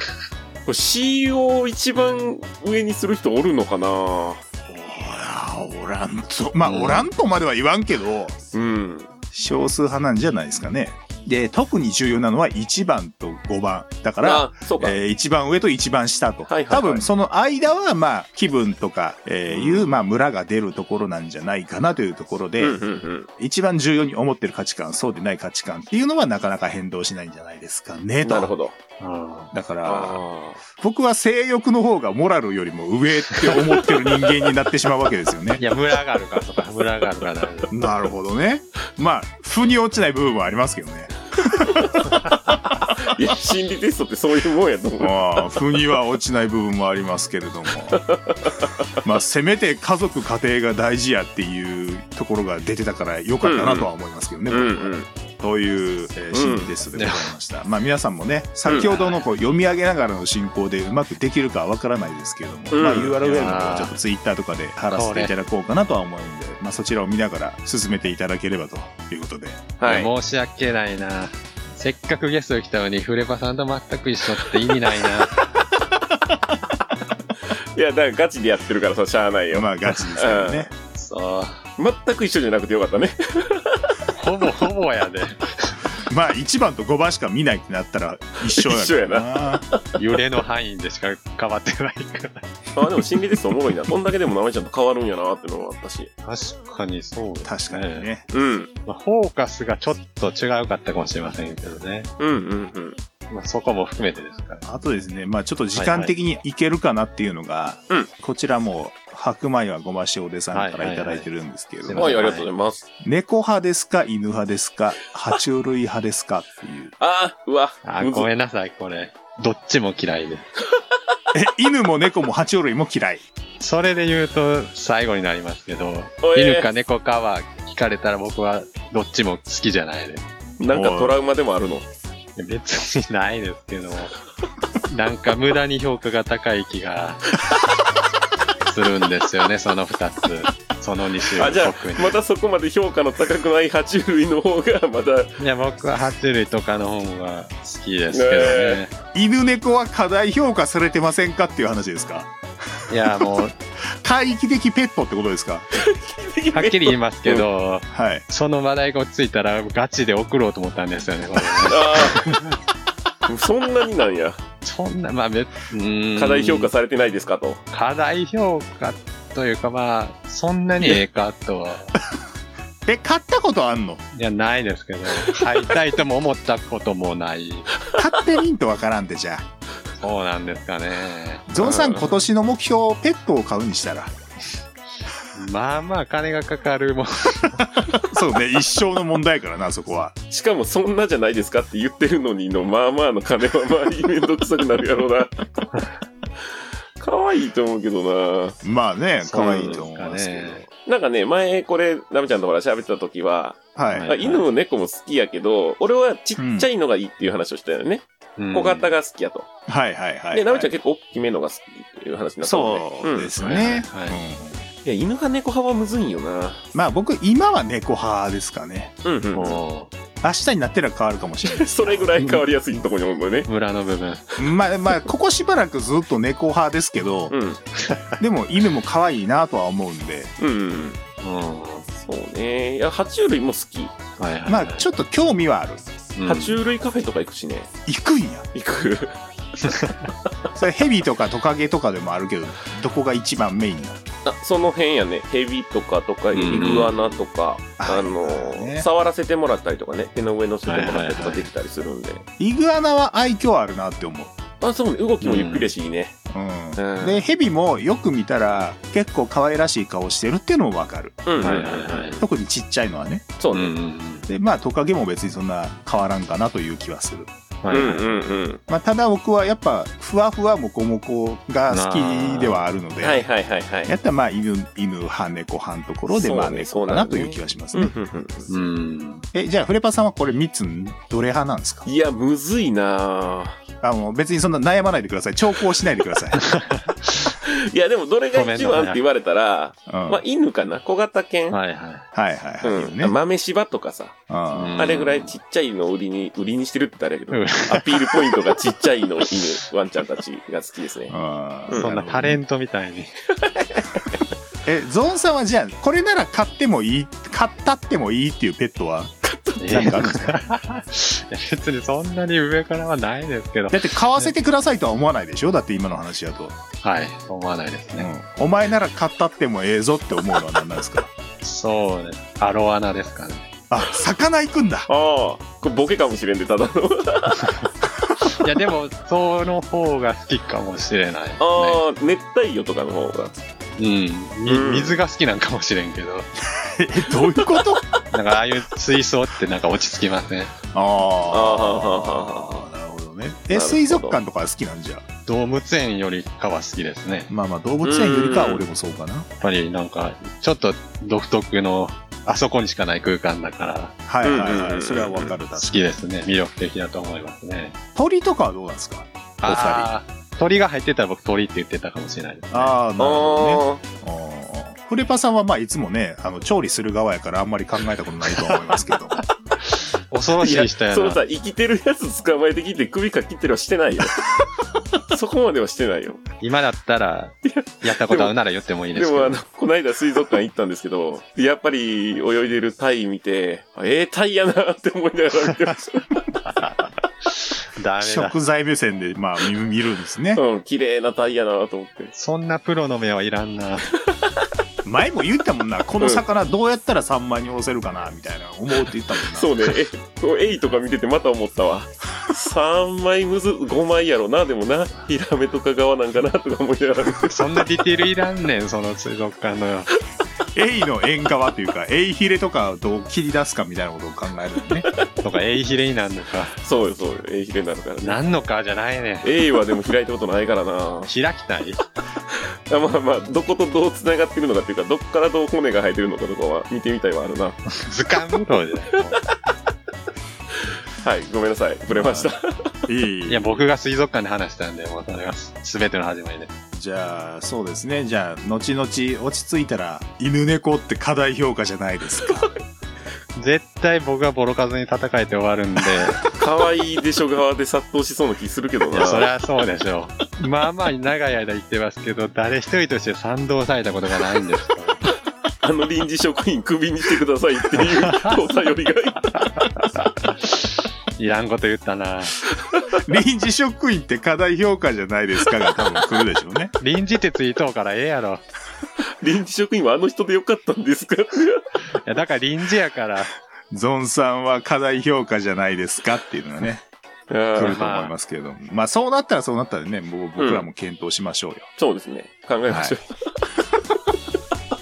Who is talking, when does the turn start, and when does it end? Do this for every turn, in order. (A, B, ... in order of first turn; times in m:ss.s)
0:00.6-0:04.4 A
0:04.7-0:08.4 B
0:06.6-0:07.1 C
0:08.5-0:09.1 A
0:09.3-0:22.8 B
0:14.2-0:15.0 A
0:16.5-0:17.0 A
0:19.5-0:19.9 A
0:22.6-0:23.3 A
0:23.4-0:28.5 B
0:28.2-0:28.7 A
0:29.0-0:29.5 C
0:29.5-0:30.2 B
0:29.8-0:30.6 A
0:30.7-0:35.6 B
0:33.4-0:34.3 A
0:35.6-0:37.7 C
0:37.7-0:42.2 B
0:43.0-0:45.7 A
0:45.0-0:48.1 B
0:47.9-0:48.7 A
0:49.0-1:09.6 B
0:53.4-0:53.9 A
0:54.5-0:55.1 A
0:56.3-0:56.7 A
0:56.9-0:57.3 C
0:58.7-0:59.2 C
1:02.7-1:03.2 A
1:03.2-1:03.9 C
1:04.9-1:05.3 C
1:09.8-1:10.1 A
1:09.8-1:15.3 C
1:17.5-1:20.7 A
1:19.5-1:20.7 B
1:20.9-1:21.6 C
1:21.8-1:23.9 A
1:24.1-1:25.8 C
1:26.0-1:29.6 B
1:28.5-1:29.8 A
1:30.0-1:32.5 C
1:32.8-1:36.1 A
1:36.2-1:38.1 C
1:37.4-1:38.2 B
1:38.3-1:38.7 A
1:38.8-1:42.1 C
1:42.2-1:43.0 A
1:43.3-1:44.6 C
1:44.6-1:52.3 B
1:45.7-1:46.1 C
1:50.5-1:51.3 C
1:51.8-1:52.5 C
1:51.9-1:52.8 A
1:53.0-1:56.9 B
1:57.0-1:58.3 A
1:57.8-2:00.4 C
2:01.3-2:03.2 B
2:03.6-2:10.2 C
2:06.2-2:06.7 A
2:10.6-2:11.9 A
2:10.7-2:11.2 B
2:12.4-2:14.1 C
2:14.8-2:17.2 C
2:18.6-2:22.1 C
2:21.4-2:25.3 A
2:25.4-2:28.9 C
2:28.1-2:28.8 A
2:29.1-2:32.3 B
2:32.9-2:33.5 C
2:33.9-2:35.7 B
2:35.7-2:37.4 A
2:36.5-2:42.6 C
2:37.9-2:38.2 B
2:41.6-2:42.2 A
2:43.3-2:44.4 A
2:44.6-2:46.7 C
2:46.2-2:47.6 A
2:47.7-2:51.9 C
2:52.8-2:54.0 B
2:54.1-2:57.8 C
2:58.0-2:59.4 B
3:00.0-3:01.7 C
3:01.5-3:04.1 B
3:01.6-3:02.1 A
3:05.3-3:07.7 C
3:07.9-3:10.2 B
3:10.3-3:15.4 A
3:17.0-3:18.6 A
3:18.6-3:20.6 B
3:19.2-3:20.6 C
3:19.4-3:19.8 A
3:20.8-3:29.5 A
3:23.8-3:24.1 B
3:23.9-3:24.4 C
3:26.4-3:26.7 B
3:28.4-3:28.9 C
3:29.7-3:30.7 B
3:30.3-3:33.4 A
3:32.4-3:34.6 B
3:33.4-3:34.2 C
3:34.8-3:36.6 A
3:36.7-3:38.9 B
3:39.0-3:39.6 A
3:39.3-3:39.9 C
3:40.2-3:42.1 B
3:41.5-3:43.5 A
3:43.5-3:44.2 C
3:44.4-3:47.3 B
3:47.3-3:47.6 A
3:47.8-3:48.2 C
3:48.2-3:50.3 B
3:50.4-3:51.0 A
3:51.2-3:51.8 C
3:52.0-3:54.1 A
3:54.2-3:54.9 C
3:54.5-3:55.8 B
3:56.2-3:56.6 C
3:56.2-3:57.7 A
3:57.8-3:58.4 B
3:58.5-3:59.1 A
3:59.7-4:00.1 C
4:00.6-4:04.0 B
4:04.2-4:12.2 A
4:06.3-4:06.9 C
4:07.8-4:08.9 B
4:10.7-4:11.5 C
4:12.4-4:14.3 B
4:14.6-4:16.2 A
4:15.2-4:15.7 C
4:16.3-4:21.3 B
4:16.8-4:17.2 A
4:21.2-4:22.3 A
4:21.4-4:22.2 C
4:22.2-4:23.3 B
4:23.4-4:23.7 A
4:23.5-4:24.3 C
4:24.3-4:28.0 B
4:27.6-4:28.0 C
4:27.7-4:28.6 A
4:28.7-4:33.2 B
4:31.7-4:32.6 C
4:33.0-4:33.9 A
4:33.8-4:37.9 B
4:36.1-4:38.5 A
4:38.5-4:39.2 C
4:39.3-4:41.8 B
4:41.8-4:43.6 A
4:43.8-4:46.4 B
4:46.4-4:47.3 C
4:47.4-4:51.6 A
4:48.3-4:49.0 C
4:49.9-4:50.2 B
4:51.5-4:52.0 C
4:52.1-4:53.1 B
4:52.6-4:54.2 A
4:54.3-4:54.8 B
4:54.5-4:55.3 C
4:54.8-5:01.1 A
4:57.3-4:58.5 C
5:01.1-5:02.4 B
5:01.7-5:01.9 A
5:01.7-5:03.1 C
5:03.4-5:04.1 A
5:04.6-5:09.1 B
5:09.2-5:10.0 A
5:09.6-5:14.3 C
5:09.7-5:10.4 B
5:13.7-5:16.6 B
5:16.8-5:18.1 C
5:18.0-5:21.1 B
5:21.4-5:23.5 C
5:23.7-5:24.9 B
5:24.9-5:27.5 A
5:28.2-5:31.8 C
5:31.4-5:33.4 A
5:33.8-5:36.3 C
5:34.4-5:35.0 A
5:36.5-5:37.8 B
5:38.1-5:40.5 C
5:40.7-5:45.0 B
5:41.3-5:42.6 A
5:43.5-5:44.2 A
5:45.2-5:47.3 C
5:47.3-5:49.3 B
5:47.8-5:48.6 A
5:49.4-5:53.9 C
5:54.1-5:55.9 B
5:54.2-5:55.4 A
5:55.5-5:57.8 C
5:57.9-5:59.9 B
5:59.4-6:02.8 C
6:02.5-6:09.2 B
6:03.0-6:03.8 A
6:08.3-6:08.8 C
6:09.6-6:11.2 C
6:10.4-6:14.2 A
6:15.1-6:16.2 A
6:16.4-6:19.4 C
6:17.4-6:18.3 A
6:18.9-6:26.2 A
6:26.5-6:28.4 C
6:28.0-6:30.4 B
6:30.3-6:32.1 A
6:32.1-6:33.9 C
6:34.8-6:39.6 B
6:39.3-6:47.4 A
6:47.3-6:49.9 C
6:50.5-6:54.9 B
6:55.2-6:56.6 C
6:56.6-6:58.2 A
6:58.0-6:59.4 C
6:59.2-7:01.1 A
7:01.1-7:01.8 C
7:02.3-7:07.6 A
7:07.8-7:09.2 C
7:11.0-7:12.7 A
7:11.9-7:12.3 B
7:12.9-7:13.6 B
7:13.3-7:16.5 C
7:16.7-7:22.5 B
7:23.4-7:26.2 C
7:26.3-7:29.3 A
7:28.9-7:35.0 C
7:35.6-7:39.6 A
7:37.8-7:38.4 C
7:40.3-7:42.4 C
7:43.0-7:46.7 B
7:46.8-7:48.4 C
7:49.2-7:51.6 A
7:52.0-7:53.3 C
7:53.7-7:56.8 B
7:57.3-7:57.8 A
7:57.5-8:01.7 B
7:57.6-7:58.1 C
8:00.4-8:00.7 A
8:01.8-8:03.1 A
8:02.7-8:03.0 B